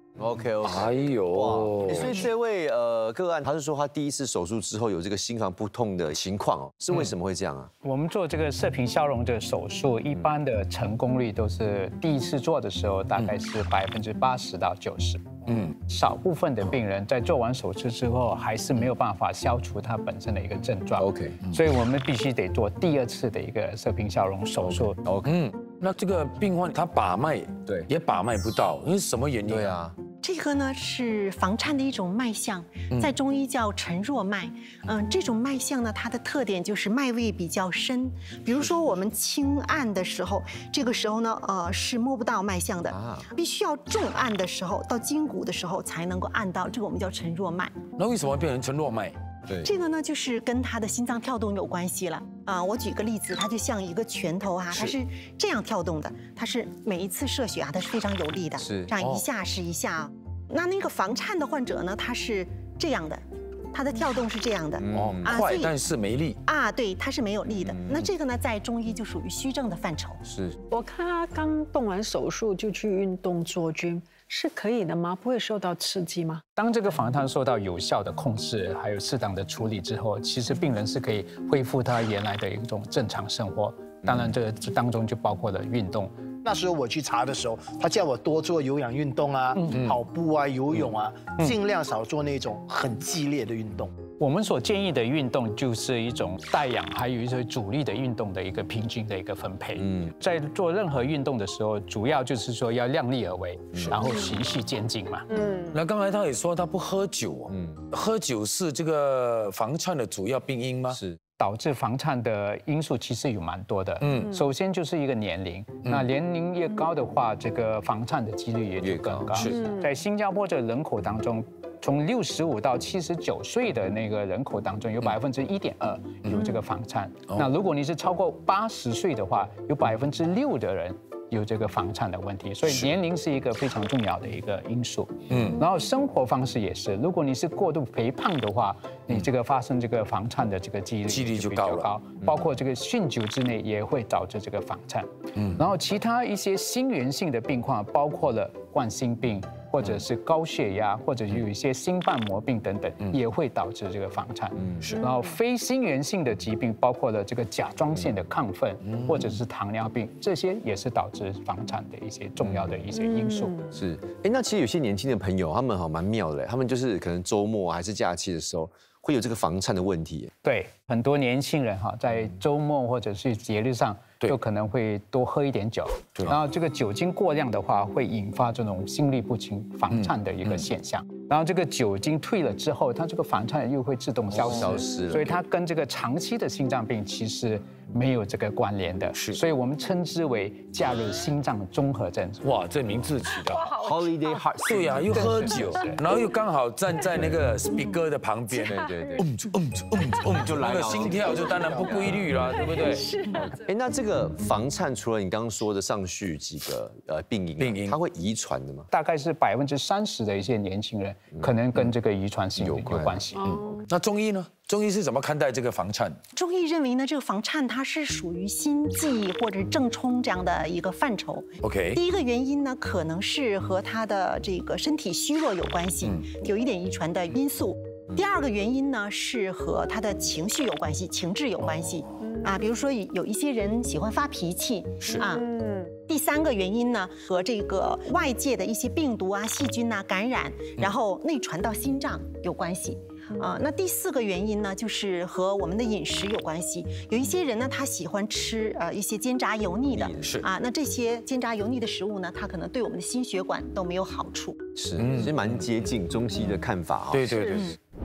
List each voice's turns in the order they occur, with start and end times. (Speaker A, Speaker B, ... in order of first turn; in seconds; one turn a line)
Speaker A: 0.2-7.7
Speaker B: 0.6-2.2
Speaker C: 7.8-25.0
Speaker B: 15.5-15.7
Speaker A: 21.0-21.4
Speaker A: 24.6-25.3
Speaker B: 25.2-29.8
Speaker A: 29.5-30.0
Speaker D: 30.2-47.8
Speaker A: 42.9-43.3
Speaker B: 48.0-49.2
Speaker A: 49.5-49.7
Speaker D: 49.6-65.8
Speaker A: 58.6-58.9
Speaker B: 59.0-59.2
Speaker A: 64.8-65.4
Speaker B: 64.9-66.4
Speaker D: 66.5-70.2
Speaker A: 67.5-68.1
Speaker A: 70.2-70.6
Speaker E: 70.7-76.4
Speaker C: 76.6-86.1
Speaker F: 86.4-93.9
Speaker C: 89.6-89.8
Speaker C: 94.2-105.3
Speaker A: 99.8-100.1
Speaker A: 103.7-104.0
Speaker E: 104.0-104.3
Speaker E: 105.3-105.7
Speaker B: 105.7-111.0
Speaker A: 107.5-107.8
Speaker C: 111.4-163.7
Speaker B: 114.0-114.3
Speaker A: 118.8-119.4
Speaker B: 119.3-119.7
Speaker E: 119.5-119.9
Speaker B: 132.7-132.9
Speaker B: 135.3-135.6
Speaker B: 141.1-141.9
Speaker A: 154.6-154.9
Speaker E: 154.9-155.3
Speaker B: 158.9-159.3
Speaker A: 162.4-162.8
Speaker E: 162.9-163.7
Speaker A: 163.7-170.3
Speaker C: 170.4-192.5
Speaker B: 179.9-180.7
Speaker A: 184.3-185.4
Speaker B: 184.4-184.7
Speaker B: 192.4-193.7
Speaker E: 193.3-194.6
Speaker A: 193.8-195.3
Speaker B: 194.7-203.1
Speaker C: 195.1-196.0
Speaker E: 198.5-199.2
Speaker A: 198.7-199.3
Speaker A: 200.3-202.4
Speaker E: 201.2-201.6
Speaker E: 202.4-203.7
Speaker A: 203.3-208.9
Speaker B: 207.6-208.0
Speaker C: 208.9-213.4
Speaker A: 212.6-213.2
Speaker E: 213.3-213.9
Speaker B: 213.4-216.2
Speaker D: 216.3-235.5
Speaker B: 221.6-222.0
Speaker B: 231.6-232.0
Speaker E: 232.3-232.7
Speaker E: 235.2-235.9
Speaker D: 236.1-254.7
Speaker A: 249.9-250.4
Speaker B: 250.2-250.5
Speaker A: 254.8-257.3
Speaker B: 255.0-255.7
Speaker B: 257.1-257.8